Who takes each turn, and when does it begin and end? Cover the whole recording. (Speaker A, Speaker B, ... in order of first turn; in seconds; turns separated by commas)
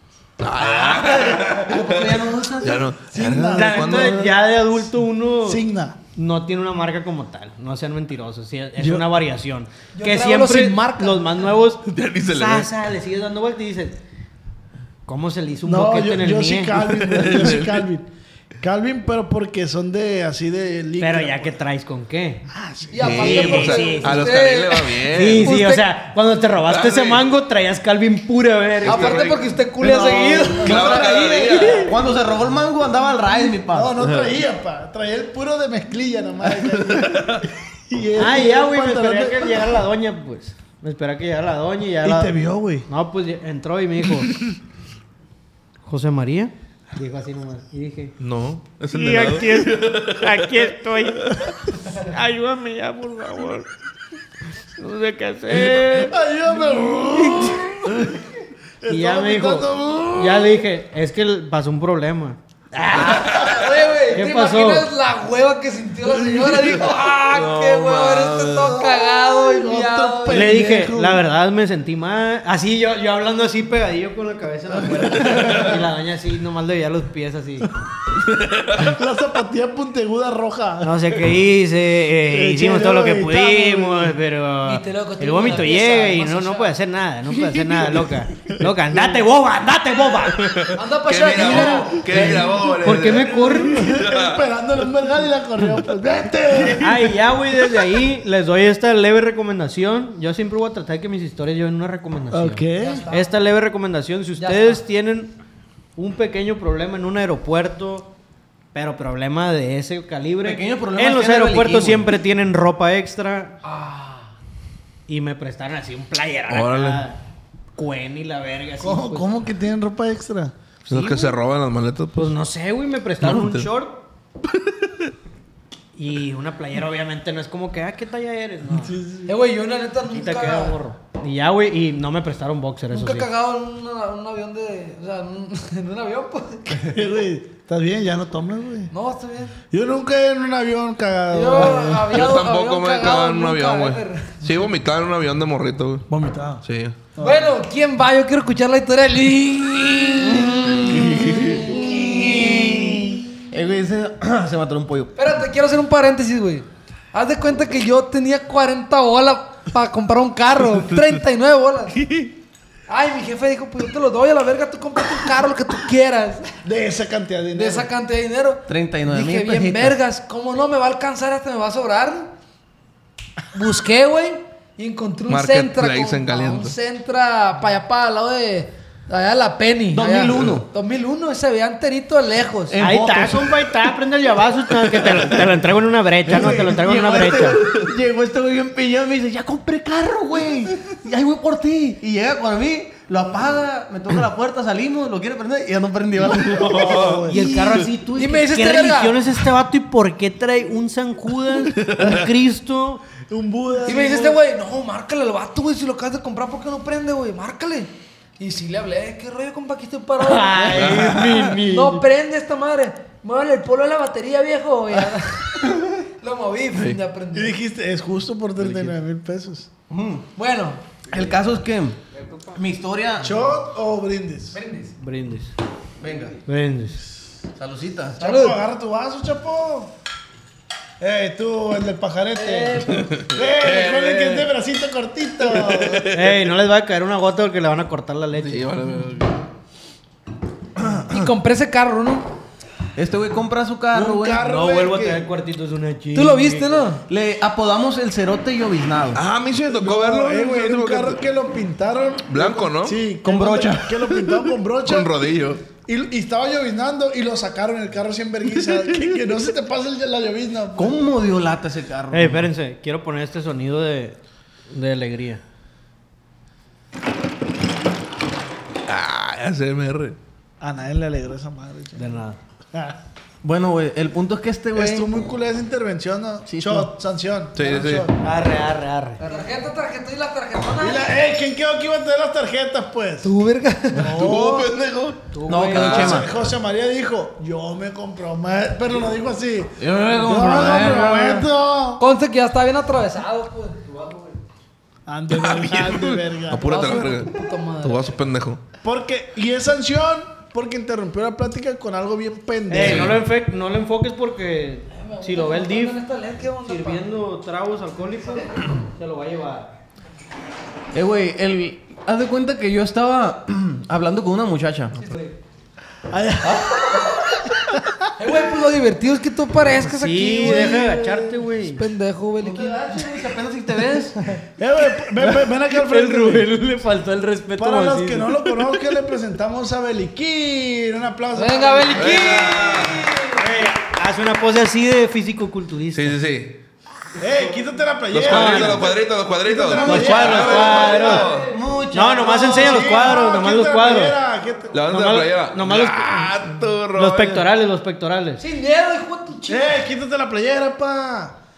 Speaker A: 0.4-4.2, Speaker B: 0.7-2.9, Speaker C: 3.0-4.6, Speaker D: 3.5-5.6, Speaker C: 5.4-6.0, Speaker D: 6.1-14.0, Speaker C: 8.8-9.1, Speaker E: 9.9-11.5, Speaker A: 11.8-12.7, Speaker D: 15.1-17.1, Speaker C: 15.6-18.1, Speaker A: 17.1-17.8, Speaker C: 18.6-21.6, Speaker D: 21.0-22.5, Speaker C: 22.5-23.3, Speaker E: 22.9-25.9, Speaker A: 23.0-25.6, Speaker D: 23.1-24.3, Speaker D: 25.1-29.3, Speaker A: 26.6-27.3, Speaker A: 28.8-29.5, Speaker E: 28.8-31.2, Speaker C: 29.9-30.9, Speaker B: 30.4-33.9, Speaker A: 30.6-31.9, Speaker D: 31.1-31.8, Speaker C: 33.7-39.8, Speaker A: 34.0-34.3, Speaker A: 36.8-37.4, Speaker D: 38.2-44.4, Speaker C: 42.0-42.9, Speaker D: 45.8-48.1, Speaker A: 48.2-50.7, Speaker F: 49.0-49.7, Speaker F: 50.2-51.1, Speaker F: 52.2-53.6, Speaker F: 54.8-55.8, Speaker D: 55.4-56.1, Speaker C: 55.8-58.1, Speaker C: 58.8-60.6, Speaker D: 58.9-63.5, Speaker E: 63.0-70.6, Speaker D: 64.1-64.9, Speaker A: 67.3-68.8, Speaker C: 68.8-71.2, Speaker D: 70.3-77.7, Speaker A: 75.3-75.6, Speaker A: 78.3-78.9, Speaker C: 78.8-81.0, Speaker D: 80.8-90.5, Speaker C: 82.3-84.2, Speaker E: 84.6-86.7, Speaker C: 88.5-89.2, Speaker A: 90.5-94.4, Speaker E: 90.7-92.4, Speaker D: 91.3-93.8, Speaker C: 92.1-92.4, Speaker C: 93.0-97.2, Speaker D: 96.8-105.3, Speaker C: 102.3-103.0, Speaker E: 102.8-103.3, Speaker E: 104.4-104.8, Speaker D: 106.0-108.1, Speaker D: 108.7-113.6, Speaker B: 110.4-112.1, Speaker E: 113.6-114.3, Speaker D: 115.1-117.2, Speaker A: 116.5-117.0, Speaker D: 117.8-119.3, Speaker C: 118.8-120.5, Speaker D: 120.8-121.3, Speaker A: 120.9-122.3, Speaker D: 122.1-124.0, Speaker A: 123.2-123.7, Speaker A: 124.5-124.9, Speaker D: 125.9-129.0, Speaker C: 128.7-129.3, Speaker E: 129.3-130.8, Speaker D: 130.1-133.3, Speaker E: 132.9-136.9, Speaker C: 136.7-138.9, Speaker E: 138.9-139.5, Speaker C: 139.7-142.3, Speaker E: 141.3-144.4, Speaker A: 142.1-146.1, Speaker C: 146.1-146.6, Speaker A: 146.6-147.0, Speaker C: 147.2-147.5, Speaker E: 147.2-151.1, Speaker B: 150.2-155.2, Speaker A: 151.2-151.6, Speaker E: 155.2-161.9, Speaker A: 162.0-162.3, Speaker E: 162.9-166.4, Speaker C: 166.6-167.9, Speaker E: 167.5-172.3, Speaker B: 168.7-170.0, Speaker E: 173.5-182.8, Speaker A: 175.3-176.7, Speaker B: 179.9-180.7, Speaker B: 182.7-183.7, Speaker D: 182.8-187.6, Speaker B: 185.0-185.3, Speaker B: 186.3-197.1, Speaker C: 196.3-197.4, Speaker A: 196.7-197.3, Speaker D: 197.3-203.0, Speaker E: 198.1-199.2, Speaker A: 201.7-202.2, Speaker C: 203.3-204.4, Speaker E: 203.8-217.5, Speaker D: 210.2-212.0, Speaker A: 210.8-211.5, Speaker A: 216.7-217.0, Speaker C: 217.3-219.7, Speaker D: 218.6-218.9, Speaker B: 219.9-220.3, Speaker E: 220.4-220.8, Speaker B: 221.1-222.0, Speaker B: 222.5-223.5, Speaker C: 223.2-224.6, Speaker E: 224.5-224.9, Speaker D: 225.0-225.5, Speaker B: 226.0-226.4, Speaker D: 226.4-227.0, Speaker B: 227.6-228.2, Speaker E: 228.2-228.6, Speaker C: 228.2-229.9, Speaker C: 231.0-236.1, Speaker E: 232.4-233.0, Speaker A: 232.9-234.5, Speaker A: 235.4-236.4, Speaker D: 236.1-238.7, Speaker A: 238.4-239.4, Speaker B: 240.9-241.3, Speaker E: 241.1-242.3, Speaker B: 242.9-244.4, Speaker C: 243.9-245.3, Speaker D: 244.4-246.7, Speaker E: 246.1-247.0, Speaker B: 247.1-249.2, Speaker A: 249.1-251.2, Speaker C: 249.7-255.1, Speaker A: 252.3-253.0, Speaker B: 253.2-253.9, Speaker A: 254.8-255.6, Speaker C: 255.8-261.0, Speaker B: 260.8-262.5, Speaker D: 262.1-264.2, Speaker D: 264.7-265.4, Speaker A: 268.9-270.2, Speaker C: 270.6-272.1, Speaker D: 271.9-272.4, Speaker C: 272.7-273.0, Speaker B: 273.4-275.2, Speaker C: 274.7-278.2, Speaker B: 276.4-276.9, Speaker A: 277.5-278.1, Speaker D: 278.2-279.2, Speaker E: 279.2-281.1, Speaker C: 280.8-283.3, Speaker E: 283.2-284.1, Speaker C: 283.9-284.7, Speaker A: 284.0-286.2, Speaker D: 285.3-286.2, Speaker B: 285.5-286.3, Speaker C: 285.7-292.0, Speaker B: 289.8-291.5, Speaker E: 292.0-293.8, Speaker C: 295.1-297.1, Speaker A: 295.3-298.6, Speaker E: 296.6-298.2, Speaker C: 298.8-303.2, Speaker D: 302.7-306.0, Speaker A: 302.8-303.2, Speaker E: 304.9-307.1, Speaker D: 306.6-309.7, Speaker B: 310.9-315.0, Speaker E: 315.0-315.3, Speaker C: 316.1-317.0, Speaker C: 317.5-318.1, Speaker E: 318.2-320.9, Speaker D: 319.8-321.8, Speaker C: 320.4-321.3, Speaker E: 321.6-323.0, Speaker B: 322.4-324.2, Speaker C: 324.6-326.5, Speaker D: 325.2-328.6, Speaker C: 327.6-332.6, Speaker E: 331.3-333.4, Speaker A: 331.9-333.1, Speaker D: 333.3-336.1, Speaker A: 335.9-336.6, Speaker C: 337.2-341.3, Speaker A: 338.1-341.5, Speaker D: 338.2-338.9, Speaker B: 339.8-343.0, Speaker D: 339.8-341.2, Speaker E: 340.8-341.4, Speaker D: 341.9-344.2, Speaker C: 342.4-344.9, Speaker A: 344.7-347.5, Speaker D: 344.9-348.4, Speaker E: 348.4-349.7, Speaker C: 349.5-351.4